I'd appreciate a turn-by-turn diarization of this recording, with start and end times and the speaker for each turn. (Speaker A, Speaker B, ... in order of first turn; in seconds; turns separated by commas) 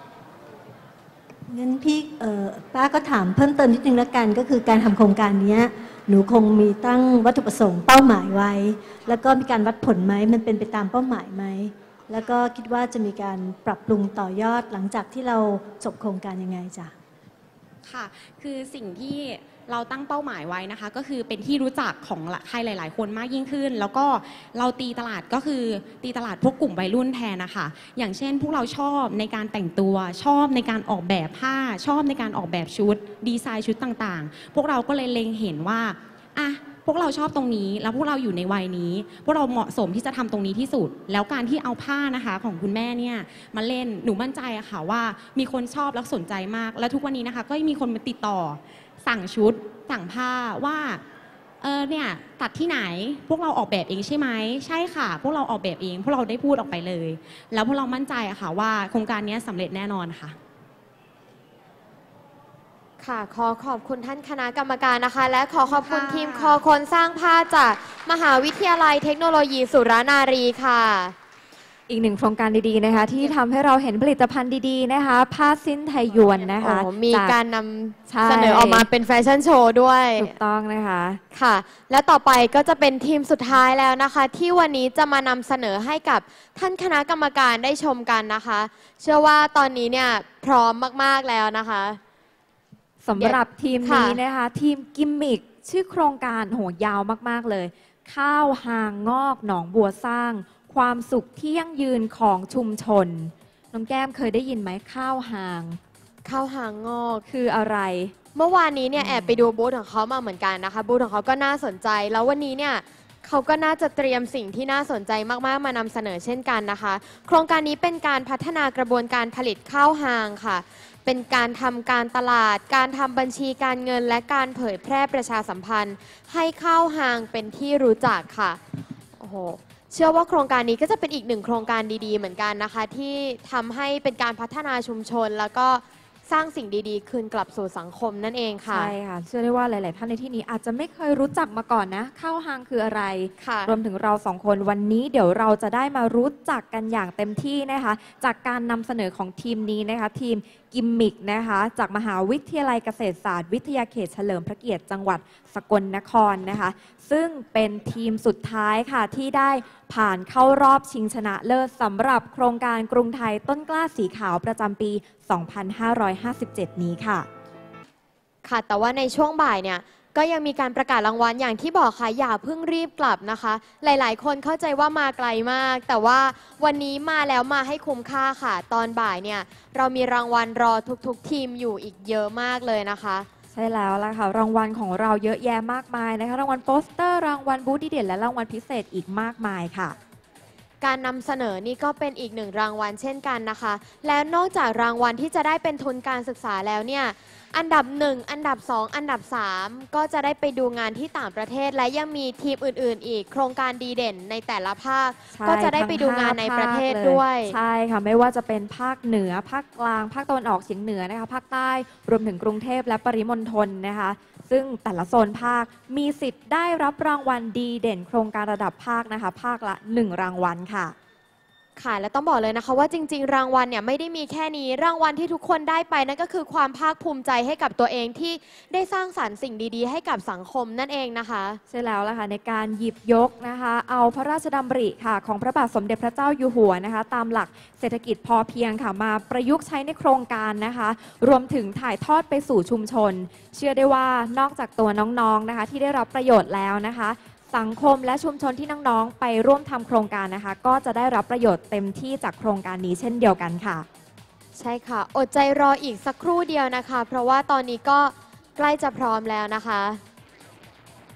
Speaker A: 1.5-16.9, Speaker B: 17.8-51.0, Speaker B: 51.6-60.4, Speaker C: 63.0-71.1, Speaker B: 65.7-66.6, Speaker D: 71.9-77.4, Speaker C: 76.6-80.3, Speaker D: 78.0-78.8, Speaker D: 80.2-81.2, Speaker C: 81.3-92.0, Speaker D: 93.0-105.8, Speaker C: 93.2-94.2, Speaker C: 106.2-107.2, Speaker D: 107.3-108.1, Speaker C: 108.3-128.6, Speaker D: 109.0-109.5, Speaker C: 129.2-138.9, Speaker D: 138.7-167.3, Speaker C: 143.4-143.8, Speaker C: 168.4-183.3, Speaker D: 183.5-189.9, Speaker C: 190.8-207.6, Speaker D: 205.3-220.9, Speaker C: 221.8-231.6, Speaker D: 231.7-253.8, Speaker C: 254.6-260.0